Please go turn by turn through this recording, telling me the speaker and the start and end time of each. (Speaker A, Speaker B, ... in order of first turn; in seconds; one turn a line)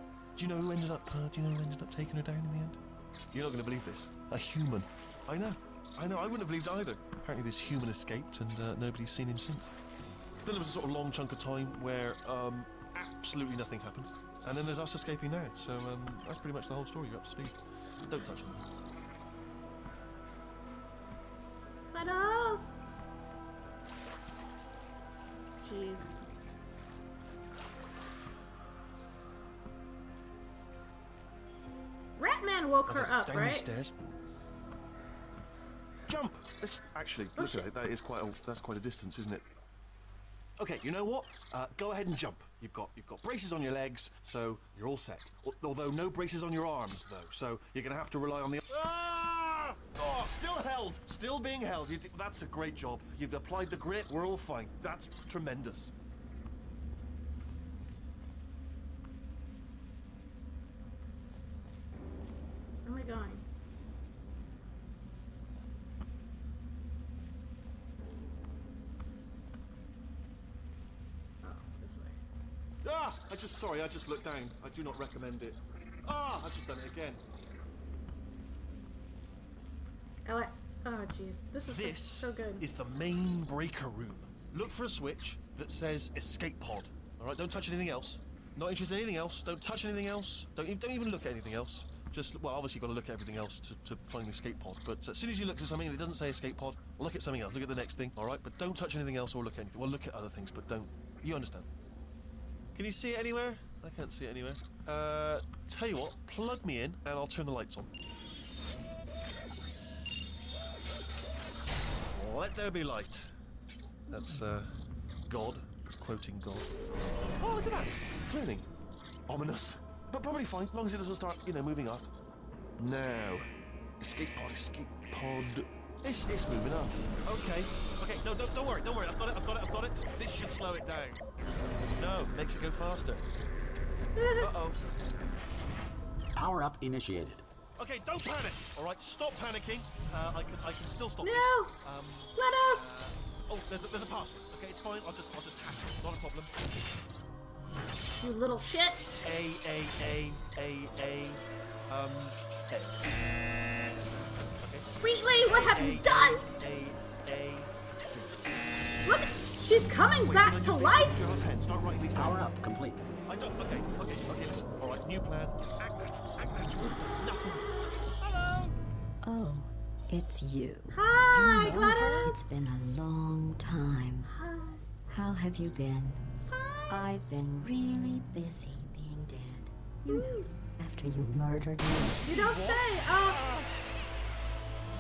Speaker A: 0.4-2.8
Speaker A: 3.3-9.8
Speaker A: 10.4-18.6
Speaker B: 21.9-22.8
Speaker B: 25.6-26.2
Speaker B: 32.2-33.7
Speaker A: 32.9-33.9
Speaker A: 36.1-39.4
Speaker B: 37.4-37.7
Speaker A: 40.6-55.9
Speaker B: 62.9-63.5
Speaker B: 71.4-72.2
Speaker A: 72.8-77.2
Speaker B: 80.3-82.7
Speaker A: 81.7-101.7
Speaker A: 102.8-107.9
Speaker A: 112.1-113.3
Speaker A: 114.1-114.7
Speaker A: 115.3-116.7
Speaker A: 117.2-118.7
Speaker A: 119.3-122.0
Speaker A: 122.8-123.5
Speaker A: 124.0-131.3
Speaker A: 132.0-133.3
Speaker B: 134.2-134.5
Speaker A: 134.4-134.8
Speaker C: 136.3-137.4
Speaker A: 137.8-146.6
Speaker B: 141.2-141.7
Speaker B: 142.4-142.8
Speaker B: 148.2-149.1
Speaker A: 149.2-153.2
Speaker A: 154.6-158.6
Speaker B: 155.0-156.5
Speaker B: 159.1-161.2
Speaker A: 160.2-162.4
Speaker C: 162.1-163.1
Speaker A: 163.3-168.8
Speaker D: 169.2-174.3
Speaker B: 170.9-172.5
Speaker A: 171.5-172.2
Speaker B: 174.3-174.8
Speaker D: 175.1-176.2
Speaker B: 176.5-177.1
Speaker D: 176.9-182.2
Speaker B: 180.1-180.5
Speaker B: 182.2-183.5
Speaker A: 182.3-183.8